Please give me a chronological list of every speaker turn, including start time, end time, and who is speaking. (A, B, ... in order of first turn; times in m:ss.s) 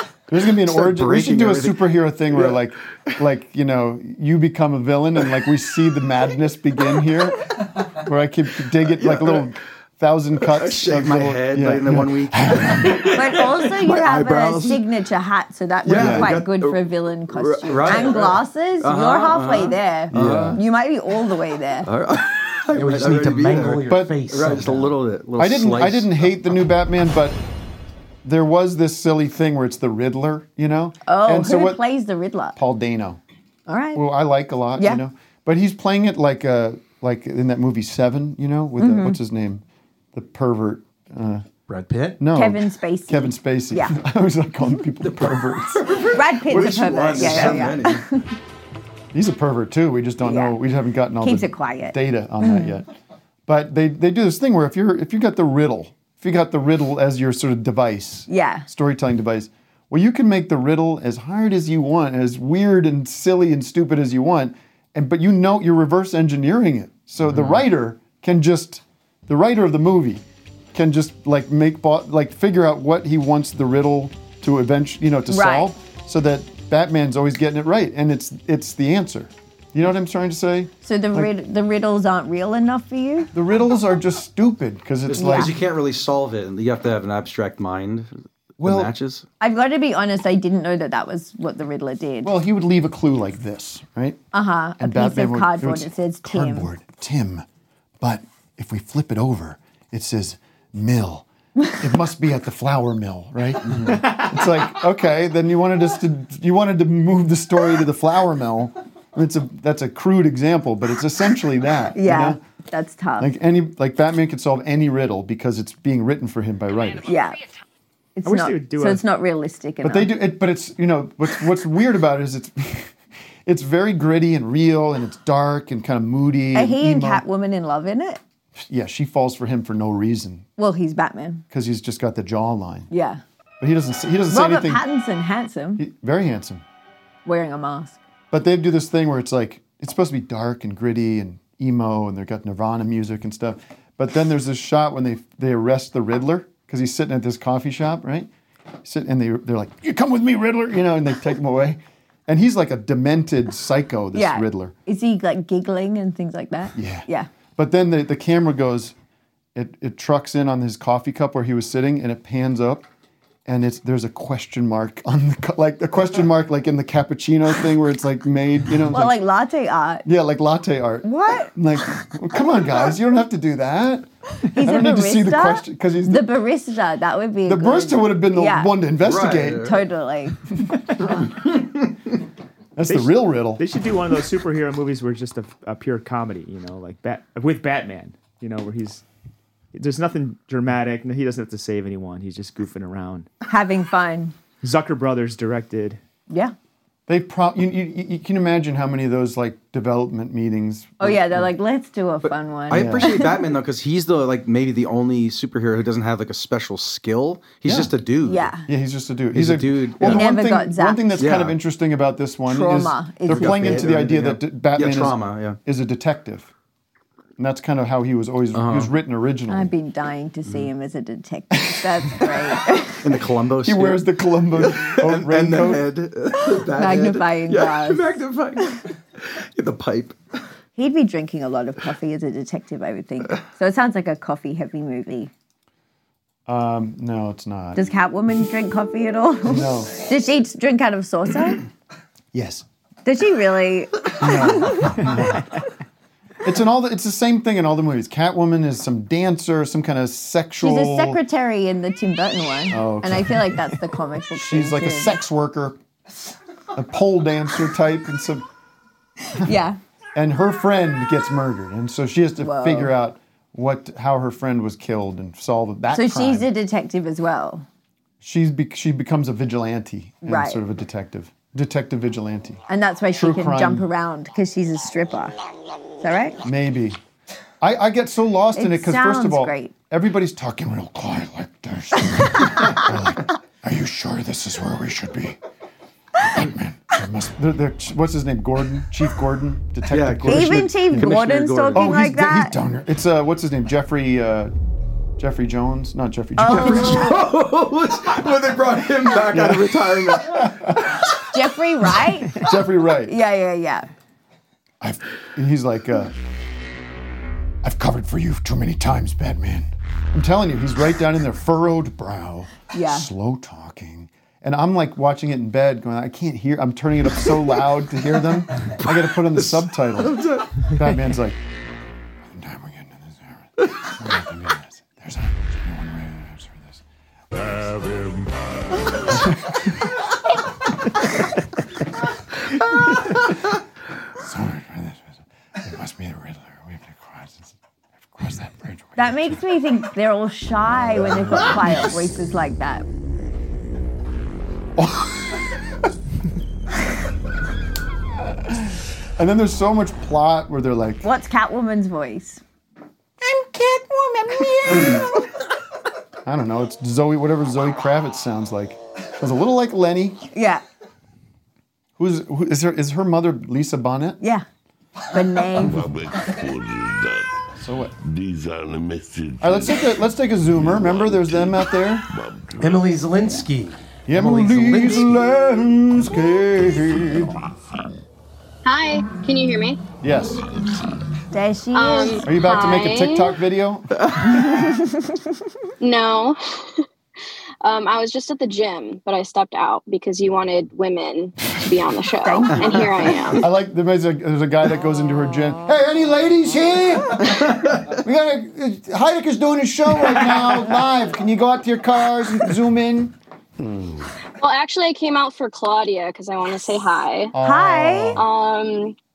0:00.3-0:13.1 A
0:00.6-0:02.5 B
0:08.9-0:09.5 B
0:10.4-0:14.8 B
0:13.1-0:21.9 C
0:15.8-0:20.6 B
0:15.9-0:16.4 A
0:20.1-0:20.6 A
0:21.8-0:26.3 B
0:22.7-0:25.0 D
0:23.9-0:24.1 A
0:25.4-0:27.4 A
0:28.2-0:31.8 A
0:31.0-0:32.6 C
0:32.6-0:33.2 A
0:33.7-0:34.0 C
0:33.9-0:41.4 A
0:34.8-0:35.0 C
0:38.8-0:39.2 C
0:41.7-0:42.2 D
0:42.2-0:45.8 A
0:42.3-0:44.0 C
0:45.0-0:48.0 B
0:46.1-0:48.3 C
0:47.2-0:47.7 A
0:49.1-0:52.9 A
0:50.2-0:50.6 C
0:51.2-0:52.8 C
0:53.5-1:21.3 A
0:58.3-0:58.7 C
1:15.3-1:15.7 C
1:20.8-1:23.3 C
1:23.3-1:25.6 A
1:25.0-1:29.2 B
1:25.1-1:25.5 C
1:28.6-1:28.9 A
1:29.4-1:32.3 C
1:32.2-1:34.2 A
1:34.3-1:36.7 C
1:34.8-1:37.4 A
1:38.0-1:52.4 A
1:51.9-1:53.3 C
1:53.2-1:57.1 A
1:57.0-1:57.4 C
1:58.2-2:00.1 C
1:58.2-1:59.0 E
1:59.8-2:02.9 A
2:03.4-2:07.2 A
2:06.5-2:08.2 C
2:08.6-2:10.4 A
2:10.6-2:11.4 C
2:11.5-2:12.9 A
2:12.9-2:13.2 C
2:13.6-2:14.8 A
2:14.3-2:15.8 C
2:15.8-2:16.6 A
2:17.2-2:18.0 C
2:18.3-2:28.3 A
2:28.8-2:34.7 A
2:34.1-2:37.3 C
2:36.7-2:38.9 A
2:39.5-2:42.8 A
2:43.4-2:49.2 A
2:48.9-2:50.0 C
2:50.0-2:56.3 A
2:51.0-2:51.5 C
2:54.4-2:58.7 C
2:57.4-2:59.7 A
2:59.0-2:59.8 B
2:59.6-3:00.4 C
3:01.0-3:01.9 B
3:02.8-3:03.6 A
3:02.8-3:09.0 E
3:09.7-3:13.3 E
3:13.5-3:14.3 C
3:14.6-3:16.0 E
3:17.1-3:21.5 A
3:21.0-3:23.3 C
3:22.2-3:28.5 B
3:22.7-3:23.1 A
3:27.6-3:27.9 A
3:28.2-3:28.7 C
3:28.7-3:36.5 A
3:29.3-3:30.2 B
3:30.0-3:31.2 C
3:31.2-3:31.6 B
3:32.5-3:33.9 C
3:33.3-3:35.6 B
3:37.4-3:39.7 A
3:38.5-3:38.9 B
3:39.5-3:43.0 C
3:41.5-3:42.3 A
3:43.0-3:50.2 B
3:43.6-3:45.9 A
3:46.7-3:48.0 C
3:50.8-3:55.3 C
3:56.4-3:57.8 A
3:57.7-4:01.6 C
3:59.5-3:59.9 A
4:02.3-4:02.6 A
4:03.0-4:05.1 C
4:04.2-4:05.4 A
4:06.4-4:11.2 A
4:10.6-4:15.2 C
4:12.7-4:13.8 A
4:14.3-4:15.8 A
4:16.7-4:18.4 A
4:19.3-4:19.8 C
4:20.1-4:26.5 A
4:22.4-4:22.9 C
4:25.9-4:27.6 C
4:28.2-4:32.6 A
4:30.2-4:30.6 C
4:32.7-4:35.3 C
4:33.1-4:33.9 A
4:36.0-4:36.4 C
4:36.4-4:37.0 A
4:37.6-4:45.4 A
4:38.6-4:39.7 C
4:46.2-4:51.1 A
4:49.9-4:51.9 B
4:50.2-4:52.5 C
4:51.7-4:54.5 A
4:55.2-4:57.2 A
4:56.4-4:57.2 C
4:56.5-5:00.5 B
4:59.3-5:01.0 A
5:01.3-5:02.4 C
5:02.4-5:03.1 A
5:03.1-5:03.9 C
5:04.8-5:06.1 A
5:07.6-5:21.4 A
5:12.7-5:13.1 C
5:19.4-5:20.6 B
5:22.2-5:26.8 A
5:29.1-5:29.6 A
5:34.1-5:37.5 A
5:38.1-5:39.4 A
5:39.0-5:42.8 C
5:41.4-5:41.7 A
5:44.8-5:45.2 A
5:48.5-5:51.0 A
5:51.0-5:52.4 C
5:56.2-6:00.2 A
6:00.3-6:00.6 C
6:02.0-6:04.2 A
6:05.1-6:05.9 C
6:05.5-6:07.3 F
6:07.6-6:07.9 A
6:08.0-6:13.1 F
6:09.4-6:12.0 A
6:12.6-6:15.2 D
6:14.1-6:17.4 A
6:18.6-6:19.8 G
6:20.0-6:20.4 A
6:21.3-6:22.2 C
6:21.7-6:23.4 G
6:22.2-6:23.9 A
6:24.0-6:24.3 B
6:24.4-6:25.1 C
6:25.8-6:26.8 G
6:27.6-6:33.4 G
6:32.2-6:33.4 C
6:33.3-6:43.1 A
6:37.4-6:37.8 B
6:44.4-6:47.3 G
6:47.3-6:48.2 A
6:47.4-6:48.2 C
6:48.1-6:49.0 G